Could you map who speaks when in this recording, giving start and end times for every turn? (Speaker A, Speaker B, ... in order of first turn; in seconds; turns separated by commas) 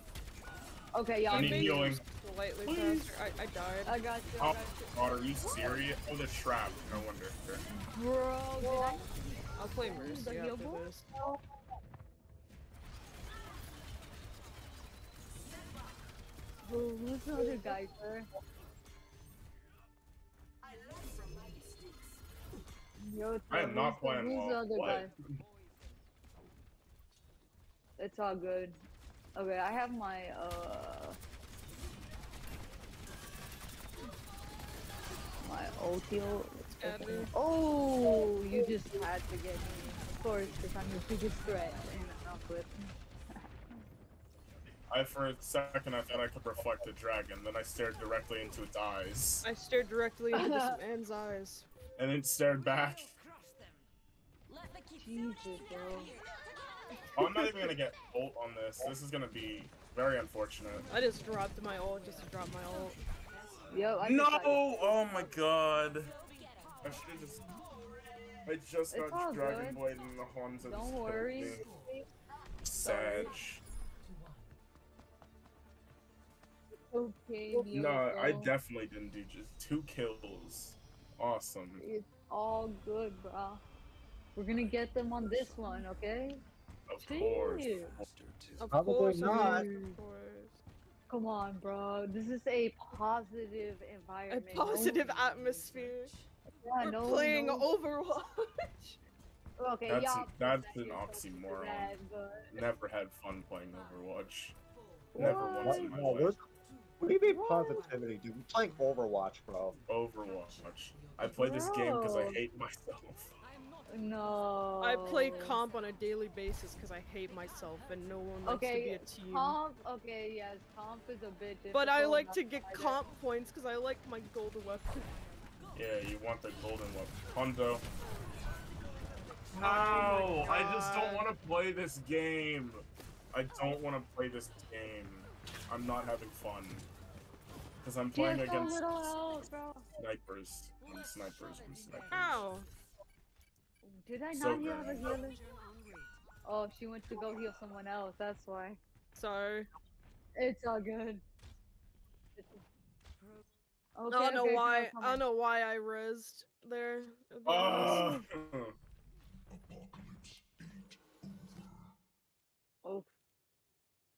Speaker A: 0.9-1.9, Speaker B: 1.3-4.0, Speaker C: 1.3-2.0, Speaker C: 2.6-3.1, Speaker A: 3.9-5.8, Speaker C: 4.4-7.6, Speaker A: 7.7-9.0, Speaker B: 8.6-8.9, Speaker B: 9.6-11.1, Speaker A: 9.8-11.4, Speaker A: 16.6-18.3, Speaker A: 23.0-25.1, Speaker C: 23.5-25.1, Speaker A: 28.0-28.8, Speaker A: 29.3-31.2, Speaker A: 35.4-42.9, Speaker B: 36.6-37.3, Speaker C: 44.9-49.5, Speaker B: 49.4-51.7, Speaker A: 50.4-50.7, Speaker C: 52.0-53.1, Speaker A: 55.0-56.1, Speaker C: 57.1-60.9, Speaker B: 60.9-63.0, Speaker A: 63.7-65.3, Speaker C: 64.0-66.1, Speaker C: 66.8-67.5, Speaker C: 68.4-71.6, Speaker A: 68.9-69.8, Speaker A: 70.6-72.0, Speaker C: 72.6-73.6, Speaker A: 72.8-73.3, Speaker A: 76.7-78.5, Speaker C: 77.7-81.8, Speaker A: 81.8-83.6, Speaker A: 84.3-86.4, Speaker C: 86.9-88.0, Speaker A: 87.0-88.0, Speaker B: 88.6-90.5, Speaker D: 88.7-89.6, Speaker A: 89.2-90.0, Speaker A: 91.1-95.0, Speaker B: 94.3-96.1, Speaker A: 96.6-97.7, Speaker B: 96.8-99.0, Speaker A: 99.6-102.5, Speaker C: 99.9-102.0, Speaker C: 102.5-104.5, Speaker A: 105.1-105.9, Speaker C: 105.2-106.4, Speaker D: 105.2-106.4, Speaker D: 107.0-109.8, Speaker A: 107.2-107.8, Speaker C: 109.9-113.4, Speaker A: 111.2-112.4, Speaker A: 113.9-115.6, Speaker B: 114.8-119.6, Speaker A: 118.4-123.0, Speaker B: 121.7-125.1, Speaker C: 125.7-127.8, Speaker C: 129.5-136.9, Speaker B: 129.6-131.3, Speaker C: 137.8-139.4, Speaker A: 138.1-139.8, Speaker C: 140.0-142.4, Speaker B: 142.1-142.7, Speaker A: 143.8-145.4, Speaker C: 144.3-145.2, Speaker A: 146.4-148.8, Speaker B: 149.1-149.7, Speaker A: 150.3-151.2, Speaker A: 152.3-152.6, Speaker A: 153.9-155.2, Speaker B: 154.1-158.2, Speaker C: 157.4-158.8, Speaker A: 162.8-163.1